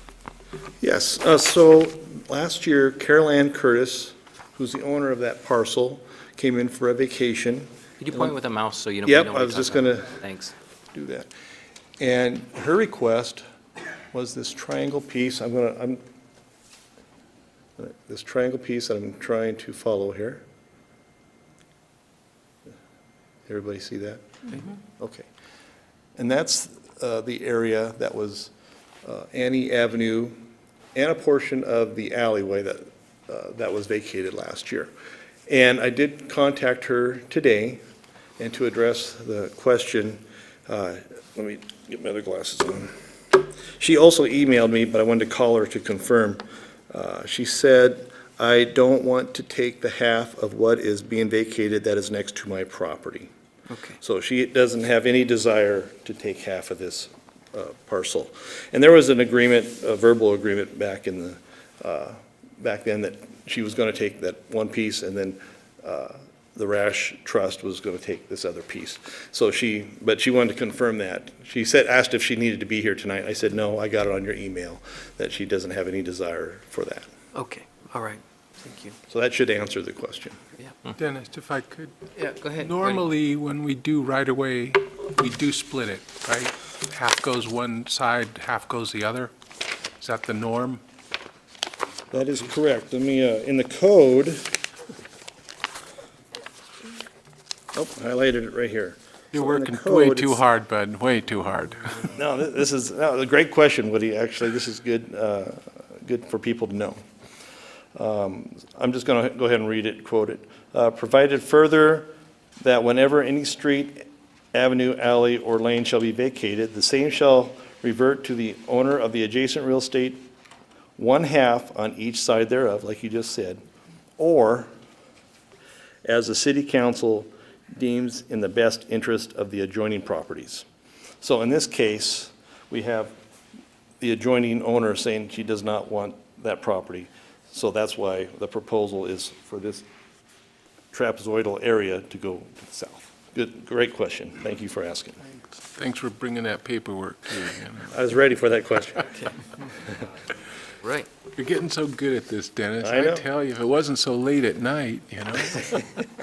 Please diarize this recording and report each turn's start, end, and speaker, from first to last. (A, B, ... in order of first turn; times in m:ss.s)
0:00.8-0:08.3 A
0:08.0-0:10.5 B
0:09.0-0:10.2 A
0:10.9-0:11.3 A
0:12.0-0:13.4 A
0:14.1-0:16.0 A
0:17.8-0:20.4 A
0:23.5-0:25.3 A
0:26.2-0:28.5 A
0:29.0-0:30.4 A
0:31.0-0:34.9 A
0:35.5-0:37.8 A
0:38.4-0:53.3 A
0:53.7-0:54.0 C
0:54.0-1:17.1 A
1:17.3-1:19.0 C
1:19.1-1:20.4 A
1:21.0-1:22.0 D
1:22.2-1:23.0 C
1:22.6-1:29.3 D
1:30.0-1:30.8 D
1:32.1-1:34.5 A
1:37.7-1:40.4 A
1:39.3-1:42.1 D
1:42.1-1:47.0 A
1:48.0-2:00.3 A
2:01.0-2:03.6 A
2:04.2-2:04.7 A
2:06.0-2:10.7 A
2:11.2-2:13.1 A
2:14.0-2:19.9 A
2:20.9-2:25.2 A
2:25.8-2:27.9 D
2:27.9-2:29.4 A
2:30.8-2:31.1 C
2:31.4-2:35.8 D
2:32.8-2:33.2 A